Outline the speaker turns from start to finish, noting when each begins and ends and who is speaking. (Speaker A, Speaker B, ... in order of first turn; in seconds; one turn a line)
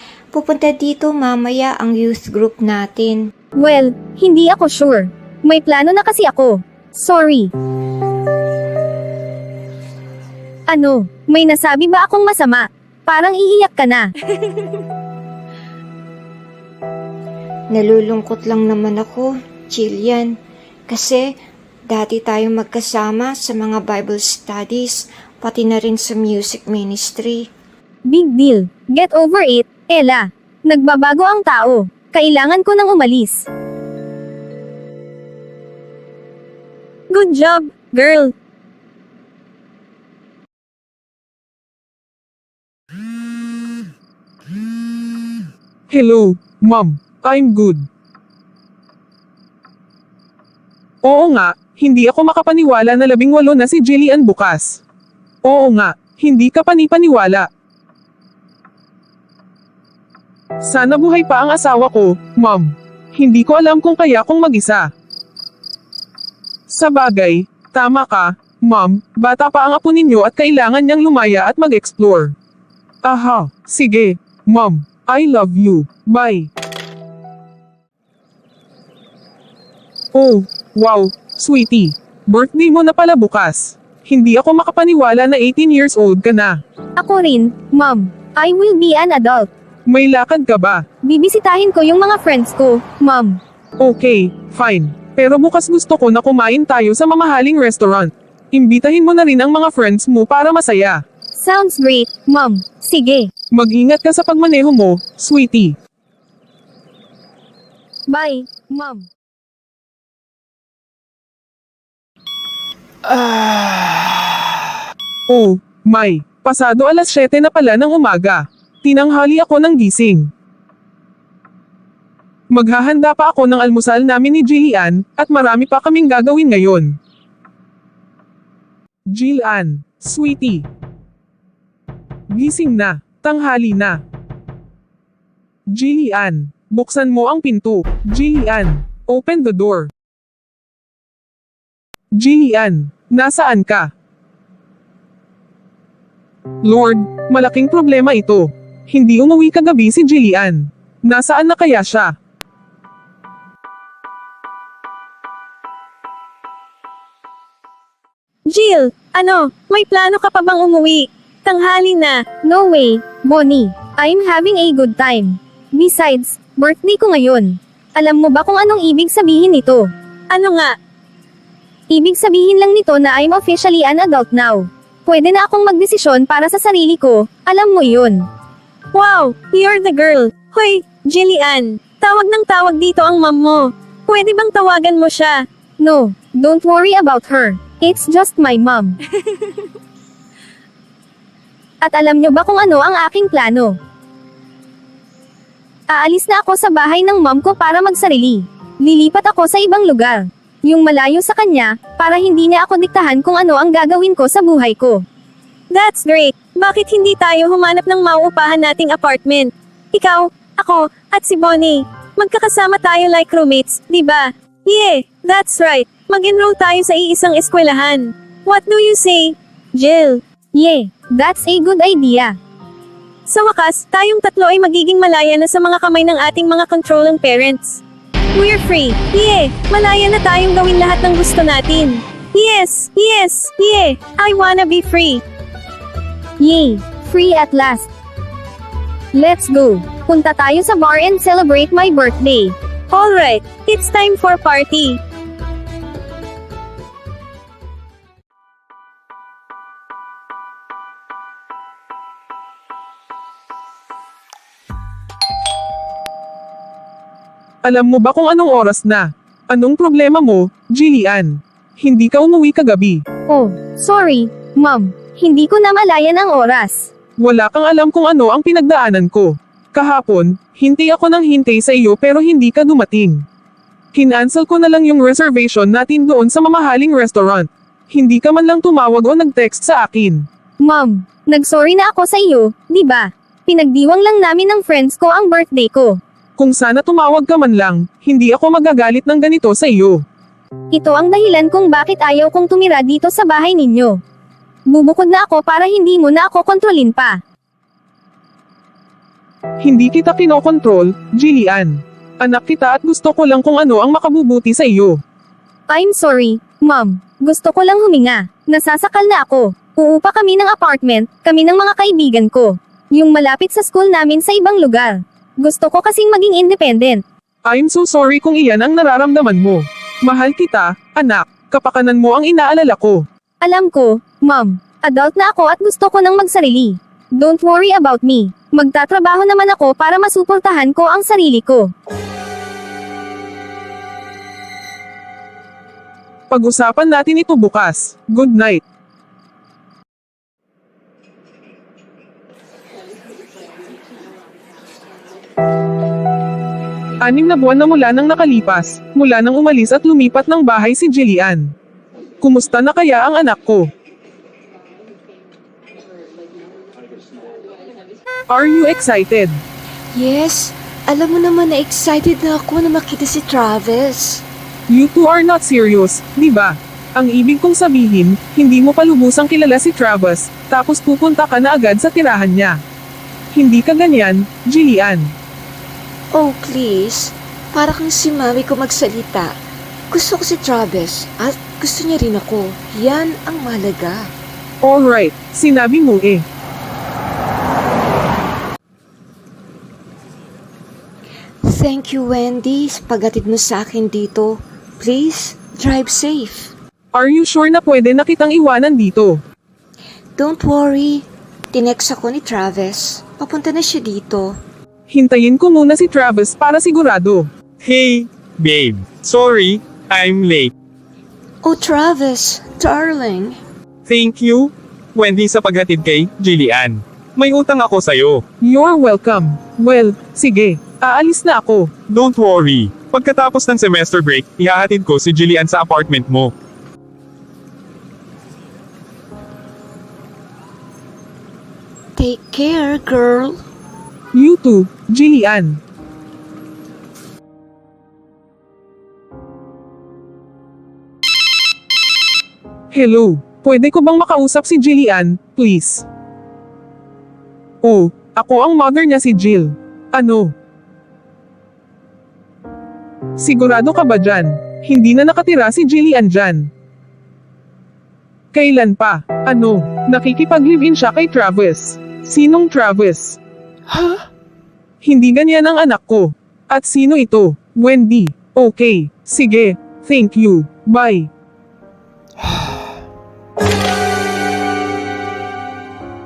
Speaker A: 0.3-3.3
Speaker B: 3.6-7.5
Speaker B: 10.7-14.1
Speaker A: 17.7-20.4
Speaker A: 20.9-21.2
Speaker A: 21.9-27.5
Speaker B: 28.1-33.5
Speaker C: 37.1-38.3
Speaker D: 45.9-47.9
Speaker D: 51.0-54.8
Speaker D: 55.5-57.5
Speaker D: 60.6-64.9
Speaker D: 66.7-72.3
Speaker D: 73.0-76.5
Speaker D: 80.2-86.6
Speaker B: 87.0-89.5
Speaker D: 89.9-90.8
Speaker B: 91.0-93.4
Speaker D: 93.8-101.0
Speaker B: 101.4-103.3
Speaker D: 103.5-105.8
Speaker B: 108.1-109.1
Speaker D: 115.3-120.3
Speaker D: 122.5-127.0
Speaker D: 129.1-130.7
Speaker D: 132.3-134.0
Speaker D: 135.7-139.9
Speaker D: 142.2-143.9
Speaker D: 146.6-152.2
Speaker C: 158.5-162.2
Speaker B: 162.4-169.9
Speaker C: 170.3-170.7
Speaker B: 171.9-178.3
Speaker C: 178.9-185.4
Speaker B: 185.8-189.0
Speaker B: 191.8-193.8
Speaker B: 195.9-205.0
Speaker C: 205.7-220.2
Speaker B: 220.6-222.4
Speaker C: 223.3-227.8
Speaker C: 228.4-235.2
Speaker B: 236.4-237.9
Speaker B: 239.1-242.6
Speaker C: 242.9-245.0
Speaker D: 257.6-263.0
Speaker B: 263.3-266.9
Speaker D: 267.2-273.2
Speaker D: 273.9-280.3
Speaker B: 280.6-286.0
Speaker D: 286.4-290.0
Speaker B: 290.7-294.0
Speaker B: 294.7-297.2
Speaker D: 299.6-305.0
Speaker B: 305.7-317.0
Speaker D: 317.5-323.0
Speaker B: 323.4-331.7
Speaker D: 336.3-338.6
Speaker D: 347.0-351.5
Speaker D: 352.2-353.7
Speaker D: 358.3-359.4
Speaker A: 359.9-364.2
Speaker D: 364.7-372.6
Speaker D: 373.4-375.1
Speaker A: 376.1-379.4
Speaker A: 379.9-384.1
Speaker D: 384.6-386.2
Speaker A: 391.4-396.5
Speaker D: 396.9-399.2
Speaker A: 400.2-404.4
Speaker D: 404.9-407.3
Speaker E: 407.6-410.5
Speaker A: 411.4-413.4
Speaker E: 413.9-418.2
Speaker D: 418.4-421.7
Speaker E: 421.9-426.3
Speaker A: 432.0-433.4
Speaker D: 434.1-435.6
Speaker D: 442.7-445.9
Speaker D: 447.6-450.3
Speaker D: 453.2-456.5
Speaker D: 458.3-463.2
Speaker D: 463.8-464.0
Speaker D: 464.8-471.1